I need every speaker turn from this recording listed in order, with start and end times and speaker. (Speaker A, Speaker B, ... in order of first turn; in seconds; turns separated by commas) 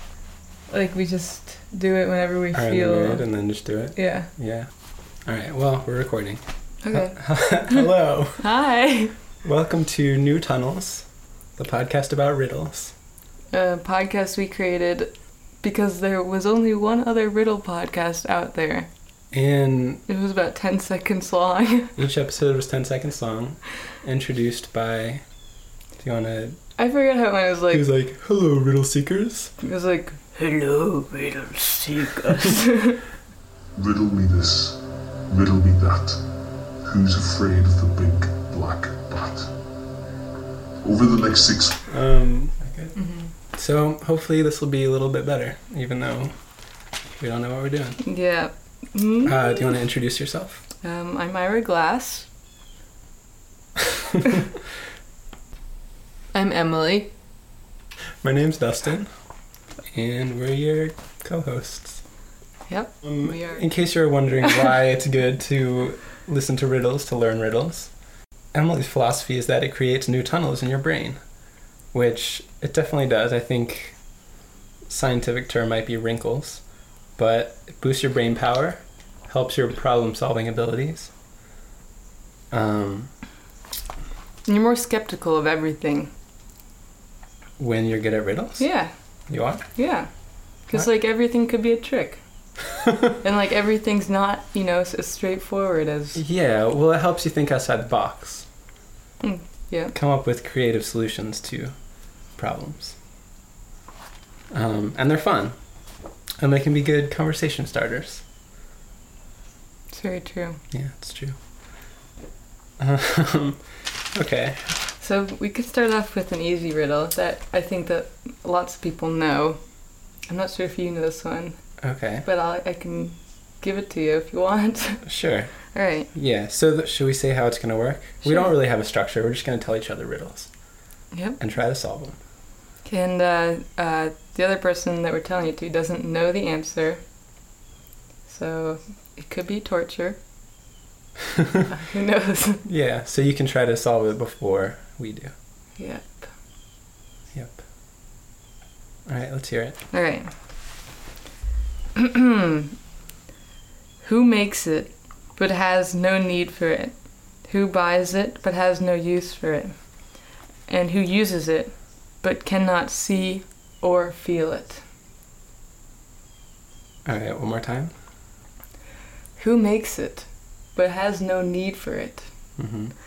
Speaker A: 0.7-3.2, Speaker B: 2.5-4.7, Speaker A: 3.9-4.3, Speaker B: 5.2-8.4, Speaker A: 6.8-7.9, Speaker A: 8.4-9.1, Speaker B: 9.4-12.9, Speaker A: 13.5-18.9, Speaker B: 19.3-20.0, Speaker A: 20.1-21.9, Speaker B: 21.9-25.2, Speaker B: 26.0-26.6, Speaker A: 26.8-27.8, Speaker B: 27.7-29.5, Speaker A: 29.6-33.0, Speaker C: 33.8-36.2, Speaker C: 36.8-39.5, Speaker C: 40.8-41.9, Speaker B: 41.9-43.0, Speaker A: 43.0-43.3, Speaker B: 43.5-46.4, Speaker B: 47.2-48.0, Speaker A: 48.0-49.7, Speaker B: 49.2-50.6, Speaker A: 50.8-52.3, Speaker A: 56.3-57.1, Speaker B: 58.2-59.1, Speaker B: 59.9-62.0, Speaker A: 62.7-63.6, Speaker B: 63.0-67.9, Speaker B: 68.5-71.2, Speaker B: 71.9-74.0, Speaker B: 74.9-76.6, Speaker B: 77.2-81.1, Speaker B: 82.5-83.1, Speaker A: 84.5-86.1, Speaker B: 87.6-88.7, Speaker A: 88.6-88.9, Speaker B: 89.3-89.7, Speaker A: 89.7-90.1, Speaker A: 90.7-92.2, Speaker A: 93.2-96.2, Speaker B: 96.1-98.5, Speaker A: 99.2-99.9, Speaker B: 99.9-101.7, Speaker B: 102.3-103.0, Speaker B: 104.5-105.5, Speaker B: 106.4-108.2, Speaker A: 109.9-110.6, Speaker B: 110.7-111.4, Speaker B: 112.8-114.8, Speaker A: 115.0-119.6, Speaker A: 120.3-121.6, Speaker B: 121.8-122.2, Speaker A: 122.2-125.0, Speaker B: 125.0-125.5, Speaker A: 125.7-126.1, Speaker B: 126.1-130.5, Speaker A: 128.2-128.5, Speaker A: 131.1-131.4, Speaker B: 131.4-132.2, Speaker A: 132.8-137.0, Speaker A: 138.3-140.2, Speaker A: 141.7-142.6, Speaker B: 142.6-145.3, Speaker A: 145.8-146.3, Speaker B: 147.3-147.6, Speaker B: 149.1-149.8, Speaker A: 149.9-150.3, Speaker A: 151.9-152.8, Speaker A: 154.0-159.7, Speaker A: 160.7-164.8, Speaker B: 167.0-167.9, Speaker A: 169.4-172.3, Speaker B: 172.6-172.9